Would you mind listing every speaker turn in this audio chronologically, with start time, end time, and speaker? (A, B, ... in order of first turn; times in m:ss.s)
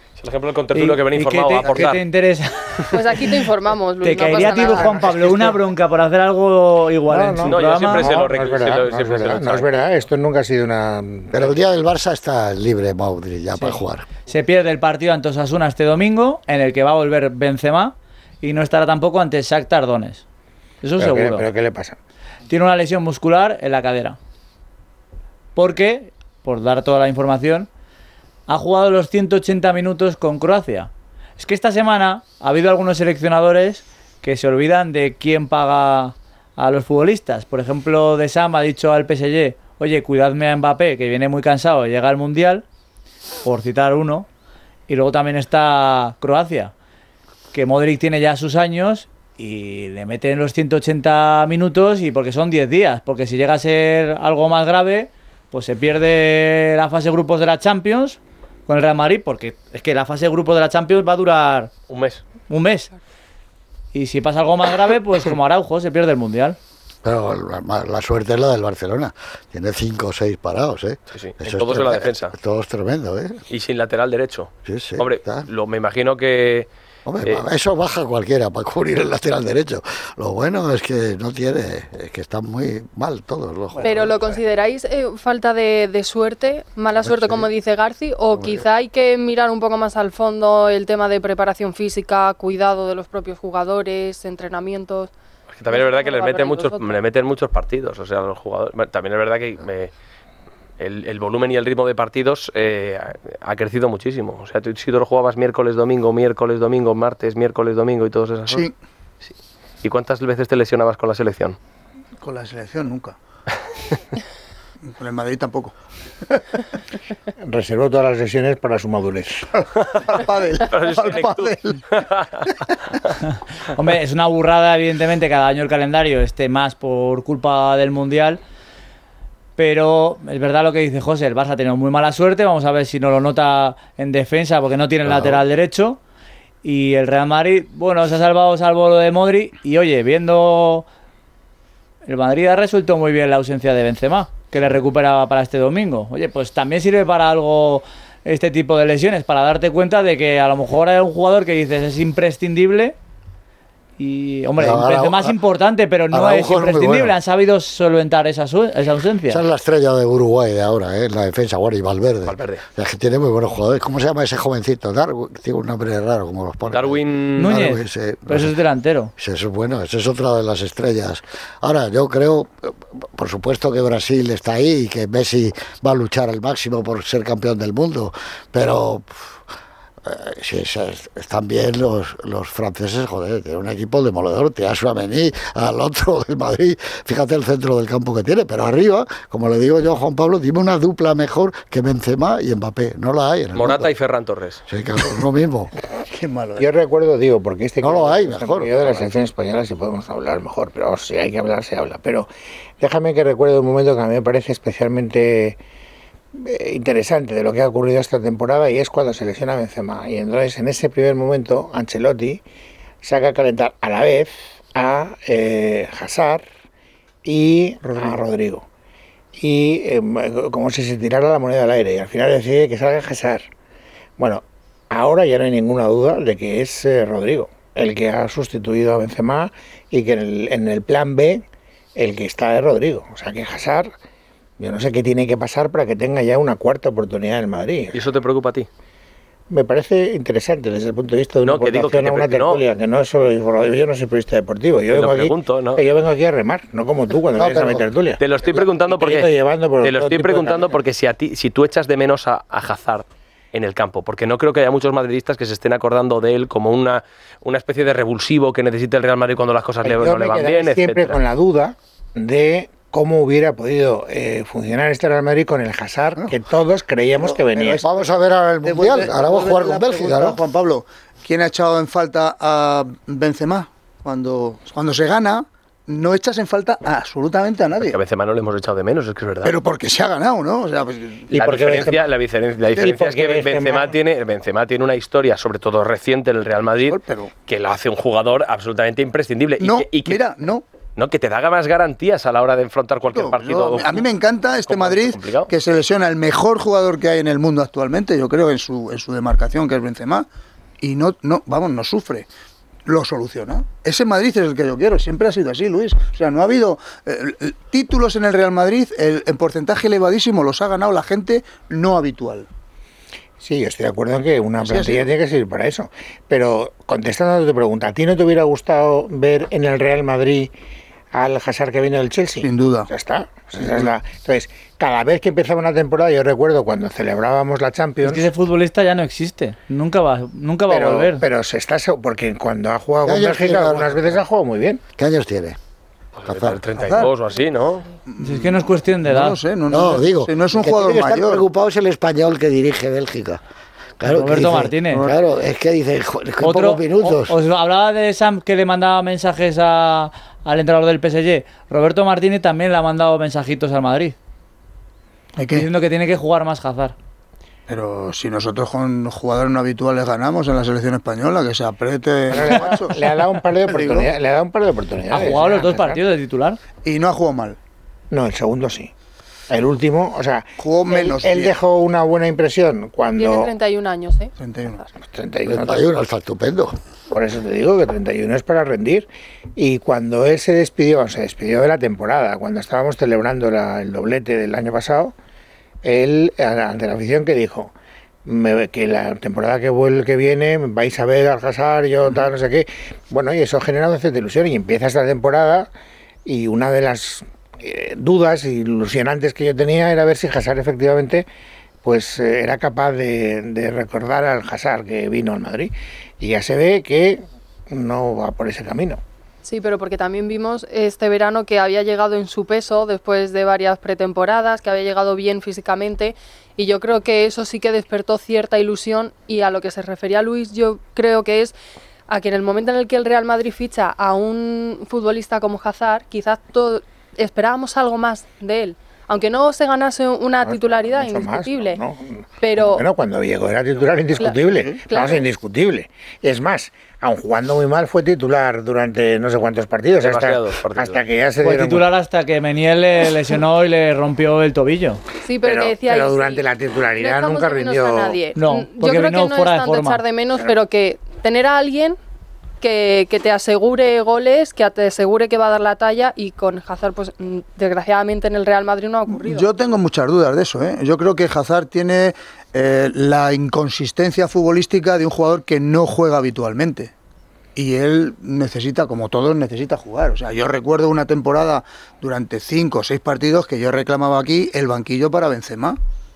0:00.2-0:02.0 A
0:00.7-0:03.3 B
0:02.9-0:05.1 C
0:04.0-0:08.2 B
0:04.7-0:05.5 D
0:07.1-0:11.5 D
0:07.4-0:09.7 A
0:11.3-0:14.1 E
0:13.6-0:20.2 B
0:20.8-0:21.5 B
0:21.0-0:22.0 D
0:22.5-0:24.2 B
0:25.6-0:27.7 B
0:28.5-0:42.6 B
0:43.4-0:44.3 B
0:44.9-0:46.7 B
0:47.5-1:01.7 B
1:01.9-1:02.2 A
1:02.5-1:02.9 B
1:03.9-1:06.6 B
1:07.0-1:13.4 E
1:11.1-1:12.3 A
1:13.5-1:16.7 A
1:14.7-1:15.5 E
1:17.1-1:24.4 E
1:23.8-1:35.1 C
1:27.0-1:27.5 E
1:28.3-1:28.6 E
1:35.6-1:39.9 A
1:35.7-1:37.0 C
1:40.8-1:48.6 A
1:48.5-1:48.7 F
1:49.8-1:51.6 A
1:52.2-1:53.2 F
1:55.0-1:55.7 F
1:56.3-1:56.6 F
1:57.4-1:59.6 D
1:59.8-2:02.5 A
2:00.0-2:01.8 F
2:02.5-2:02.7 F
2:03.7-2:08.4 B
2:09.6-2:16.0 B
2:15.1-2:15.4 E
2:16.6-2:20.9 B
2:22.0-2:33.0 B
2:34.0-2:39.4 B
2:34.6-2:35.4 E
2:36.1-2:37.2 E
2:39.3-2:48.6 E
2:42.3-2:42.6 A
2:46.7-2:47.5 A
2:47.4-2:49.1 B
2:49.2-2:59.4 E
3:00.0-3:13.9 E
3:13.5-3:14.6 A
3:14.7-3:15.7 E
3:16.1-3:16.7 F
3:16.6-3:22.3 D
3:17.8-3:19.0 E
3:22.8-3:25.6 D
3:26.3-3:32.4 D
3:33.0-3:36.5 D
3:37.2-3:38.6 D
3:39.4-3:43.5 D
3:44.2-3:51.4 D
3:52.0-3:53.9 D
3:54.6-3:58.0 D
3:57.9-3:58.7 A
3:59.5-4:10.8 D
4:01.4-4:02.6 A
4:04.9-4:05.8 A
4:07.4-4:07.8 E
4:08.2-4:21.2 A
4:19.8-4:27.8 D
4:27.7-4:30.4 E
4:28.6-4:38.0 F
4:37.8-4:39.6 A
4:39.4-4:41.3 F
4:41.3-4:50.2 A
4:41.3-4:42.1 D
4:42.8-4:43.9 D
4:46.9-4:47.3 F
4:49.6-4:50.6 F
4:51.0-4:54.0 A
4:53.1-5:00.3 F
4:54.7-4:55.5 A
5:00.8-5:02.3 F
5:02.9-5:12.5 F
5:13.4-5:20.5 D
5:14.6-5:15.1 F
5:21.1-5:28.3 D
5:22.4-5:22.9 F
5:28.0-5:31.2 B
5:30.7-5:34.8 D
5:33.0-5:34.2 E
5:35.0-5:35.6 E
5:36.2-5:37.9 A
5:36.3-5:36.6 E
5:36.8-5:37.1 F
5:38.1-5:41.4 F
5:38.2-5:39.4 B
5:39.7-5:43.4 E
5:44.0-5:47.4 E
5:44.1-5:45.0 B
5:46.4-5:54.2 B
5:55.4-5:55.7 F
5:55.5-5:57.0 B
5:57.7-6:03.0 F
6:02.3-6:06.0 D
6:03.7-6:04.1 F
6:05.1-6:06.6 B
6:06.8-6:07.6 F
6:08.1-6:08.9 D
6:09.5-6:13.5 D
6:10.6-6:11.5 F
6:13.2-6:14.3 C
6:14.4-6:14.8 F
6:15.0-6:16.0 D
6:15.4-6:16.8 E
6:17.1-6:25.1 D
6:25.8-6:27.7 D
6:28.3-6:35.7 D
6:36.3-6:41.3 D
6:41.8-6:49.0 D
6:49.4-7:01.5 C
7:02.1-7:11.8 C
7:10.4-7:21.9 D
7:12.4-7:12.8 C
7:14.2-7:15.2 C
7:20.0-7:21.0 A
7:21.4-7:25.0 B
7:25.2-7:26.4 C
7:25.4-7:28.2 D
7:27.0-7:32.0 C
7:28.4-7:30.0 B
7:32.6-7:39.5 C
7:39.1-7:46.9 F
7:47.6-7:55.8 F